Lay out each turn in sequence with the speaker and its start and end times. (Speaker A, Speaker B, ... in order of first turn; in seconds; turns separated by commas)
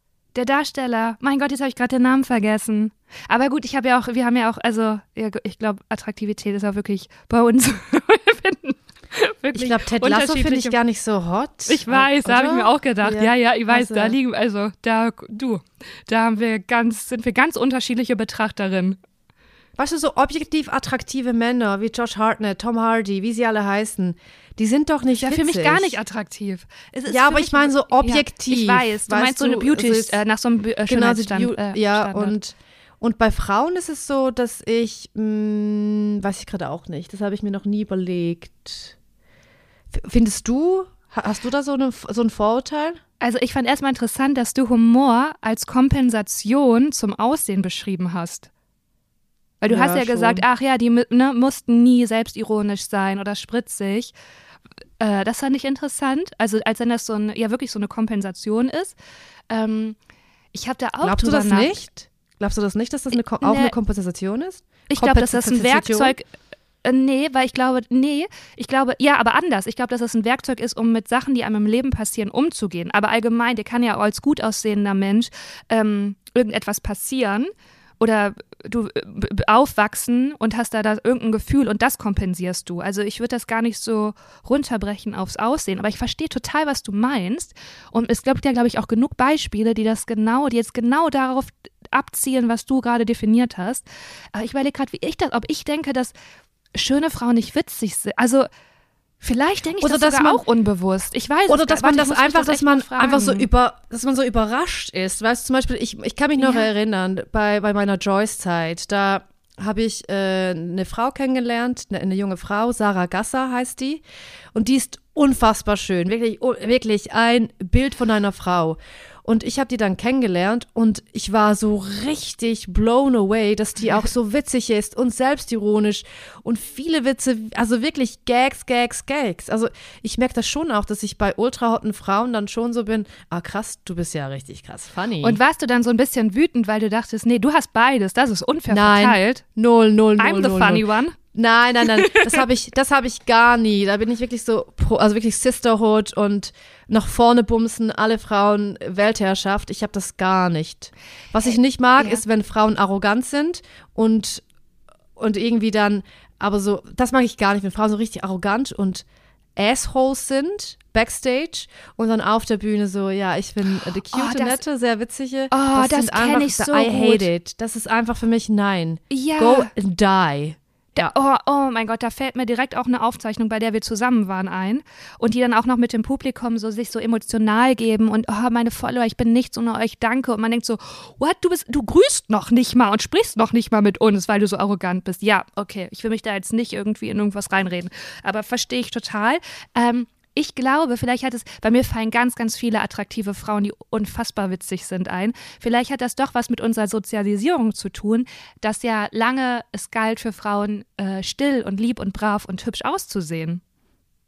Speaker A: 0.3-10.8, Speaker B: 9.5-14.2, Speaker A: 11.7-19.0, Speaker B: 19.8-26.0, Speaker A: 25.2-32.3, Speaker B: 27.1-30.2, Speaker B: 30.9-39.0, Speaker B: 39.9-43.0, Speaker A: 43.2-48.5, Speaker A: 49.6-54.1, Speaker B: 49.7-50.4, Speaker A: 55.0-59.0, Speaker A: 59.5-60.0, Speaker A: 60.5-61.8, Speaker B: 61.0-66.2, Speaker A: 63.4-63.7, Speaker A: 64.9-66.3, Speaker A: 66.8-77.5, Speaker A: 78.0-96.1, Speaker A: 96.7-98.5, Speaker A: 99.2-103.5, Speaker B: 99.8-100.4, Speaker B: 101.5-114.0, Speaker A: 106.4-106.7, Speaker B: 114.5-135.4, Speaker A: 135.2-139.4, Speaker B: 138.7-154.4, Speaker A: 140.2-141.2, Speaker A: 142.0-142.4, Speaker B: 155.2-159.1, Speaker B: 159.6-171.1, Speaker A: 164.1-164.6, Speaker A: 165.5-167.3, Speaker A: 169.1-169.7, Speaker A: 171.0-203.6